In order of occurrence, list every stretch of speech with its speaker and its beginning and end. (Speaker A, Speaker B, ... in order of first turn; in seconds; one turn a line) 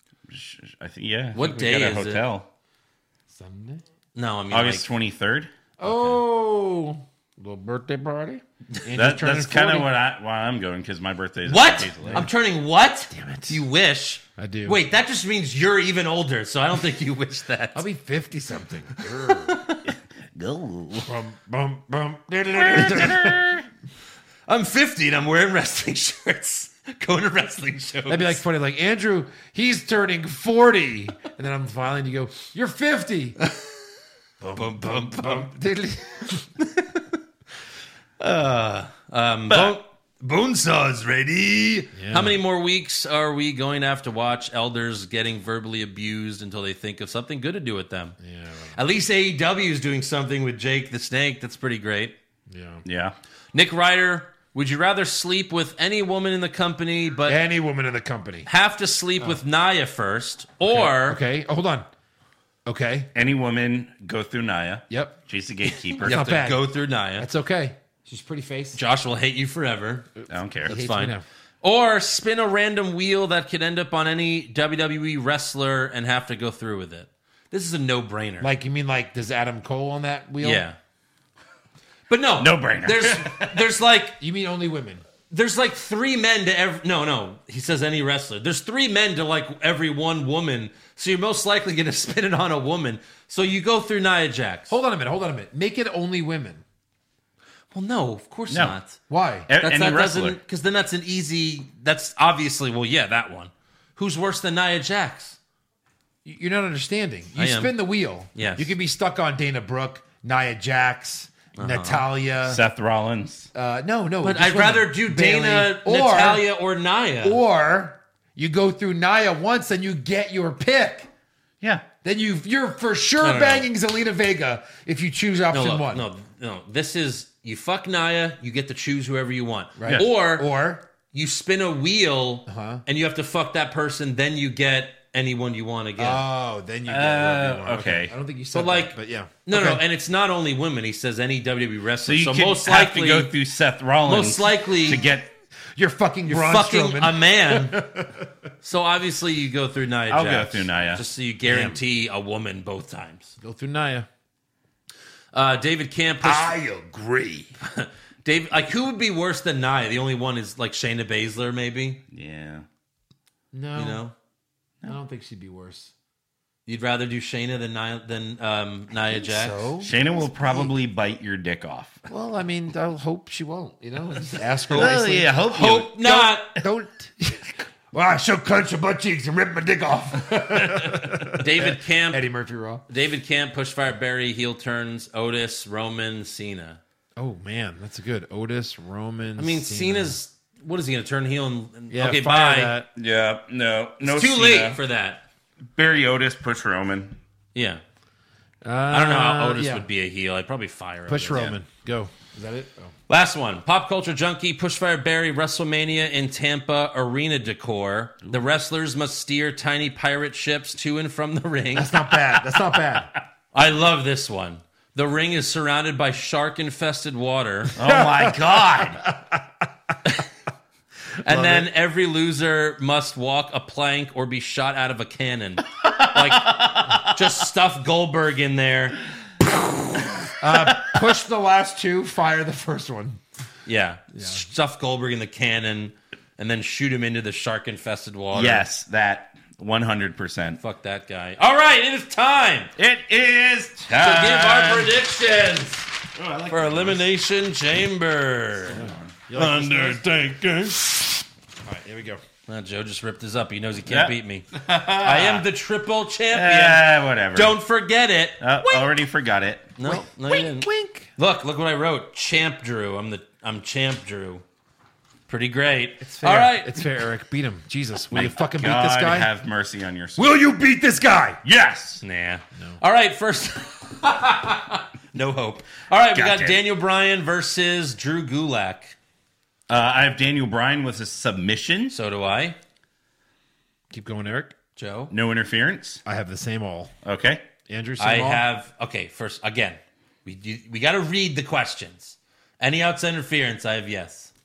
Speaker A: 0.3-2.5
Speaker B: 1.4-2.2
Speaker C: 3.3-3.8
Speaker B: 4.2-4.9
Speaker A: 4.5-5.9
Speaker C: 5.8-9.9
Speaker A: 8.9-12.3
Speaker B: 11.5-17.9
Speaker C: 12.0-12.3
Speaker C: 13.1-13.6
Speaker C: 14.4-14.8
Speaker C: 17.7-19.6
Speaker B: 19.0-19.9
Speaker A: 19.9-21.1
Speaker C: 21.0-23.6
Speaker A: 22.5-23.6
Speaker B: 24.5-28.4
Speaker C: 28.1-33.4
Speaker C: 34.4-36.5
Speaker B: 34.5-35.5
Speaker B: 36.6-37.0
Speaker B: 38.2-48.2
Speaker A: 39.5-39.8
Speaker C: 41.9-42.4
Speaker C: 48.2-48.8
Speaker B: 48.8-52.1
Speaker C: 52.5-52.8
Speaker A: 52.9-53.1
Speaker B: 53.5-57.4
Speaker C: 57.2-58.5
Speaker B: 58.5-61.2
Speaker C: 60.6-61.9
Speaker C: 62.7-63.1
Speaker A: 63.1-66.3
Speaker C: 64.9-65.2
Speaker B: 65.9-67.3
Speaker C: 66.0-68.8
Speaker B: 68.8-70.1
Speaker A: 70.3-70.7
Speaker C: 70.7-71.2
Speaker B: 70.7-78.5
Speaker C: 78.4-80.7
Speaker B: 80.4-80.8
Speaker B: 82.1-84.2
Speaker A: 82.4-83.7
Speaker C: 84.2-85.0
Speaker B: 85.3-94.7
Speaker C: 94.7-96.6
Speaker B: 97.7-99.0
Speaker A: 98.5-98.8
Speaker C: 99.1-99.5
Speaker A: 99.5-100.4
Speaker B: 99.6-105.4
Speaker C: 106.2-112.6
Speaker B: 107.4-107.8
Speaker B: 108.3-108.7
Speaker B: 111.6-112.1
Speaker A: 112.5-113.5
Speaker C: 113.5-116.5
Speaker B: 114.2-117.4
Speaker C: 117.2-121.1
Speaker C: 122.0-126.1
Speaker B: 123.2-123.7
Speaker B: 125.5-130.5
Speaker C: 129.8-130.8
Speaker B: 131.1-136.2
Speaker C: 132.5-132.8
Speaker C: 136.0-139.8
Speaker A: 136.9-138.1
Speaker B: 138.5-143.3
Speaker A: 142.1-145.3
Speaker B: 144.1-145.0
Speaker C: 145.8-148.3
Speaker B: 146.3-147.8
Speaker B: 148.6-153.3
Speaker A: 150.1-151.0
Speaker C: 151.4-151.8
Speaker C: 153.4-154.1
Speaker B: 155.3-156.6
Speaker C: 156.2-157.5
Speaker B: 157.6-162.0
Speaker A: 162.1-162.7
Speaker C: 163.5-164.0
Speaker B: 163.8-164.1
Speaker C: 164.8-165.9
Speaker B: 166.7-169.6
Speaker C: 169.0-170.7
Speaker A: 169.8-172.0
Speaker C: 172.1-175.4
Speaker A: 174.7-176.3
Speaker B: 175.5-176.6
Speaker C: 176.0-182.8
Speaker B: 181.0-182.2
Speaker B: 182.9-186.8
Speaker C: 187.2-190.2
Speaker B: 189.4-192.8
Speaker C: 191.9-192.9
Speaker A: 193.0-194.8
Speaker B: 194.0-195.2
Speaker A: 195.8-197.2
Speaker B: 197.6-197.8
Speaker C: 198.6-199.9
Speaker B: 198.9-201.5
Speaker C: 201.1-202.9
Speaker B: 203.1-212.1
Speaker C: 211.7-213.1
Speaker B: 213.5-217.8
Speaker A: 217.8-219.0
Speaker C: 217.8-219.4
Speaker B: 221.2-229.0
Speaker C: 221.2-221.7
Speaker A: 225.8-227.1
Speaker C: 230.4-233.2
Speaker B: 233.7-238.7
Speaker C: 234.2-234.4
Speaker A: 238.3-240.6
Speaker B: 240.6-242.7
Speaker A: 242.8-244.9
Speaker B: 243.9-245.9
Speaker A: 246.2-247.1
Speaker B: 246.5-248.8
Speaker A: 248.7-249.1
Speaker C: 248.7-250.0
Speaker B: 249.3-251.1
Speaker C: 251.7-252.2
Speaker B: 252.5-258.8
Speaker A: 253.9-255.4
Speaker A: 256.3-257.6
Speaker A: 258.4-259.7
Speaker B: 259.8-264.4
Speaker C: 259.8-261.1
Speaker B: 265.3-266.8
Speaker C: 266.0-269.3
Speaker A: 268.1-270.2
Speaker C: 270.2-271.4
Speaker A: 271.4-272.0
Speaker B: 272.0-278.9
Speaker A: 276.1-276.6
Speaker A: 279.7-281.9
Speaker B: 281.9-282.6
Speaker C: 283.9-284.5
Speaker B: 284.8-285.1
Speaker A: 285.1-286.0
Speaker C: 286.1-286.9
Speaker A: 287.0-287.4
Speaker C: 287.7-288.4
Speaker B: 288.0-294.3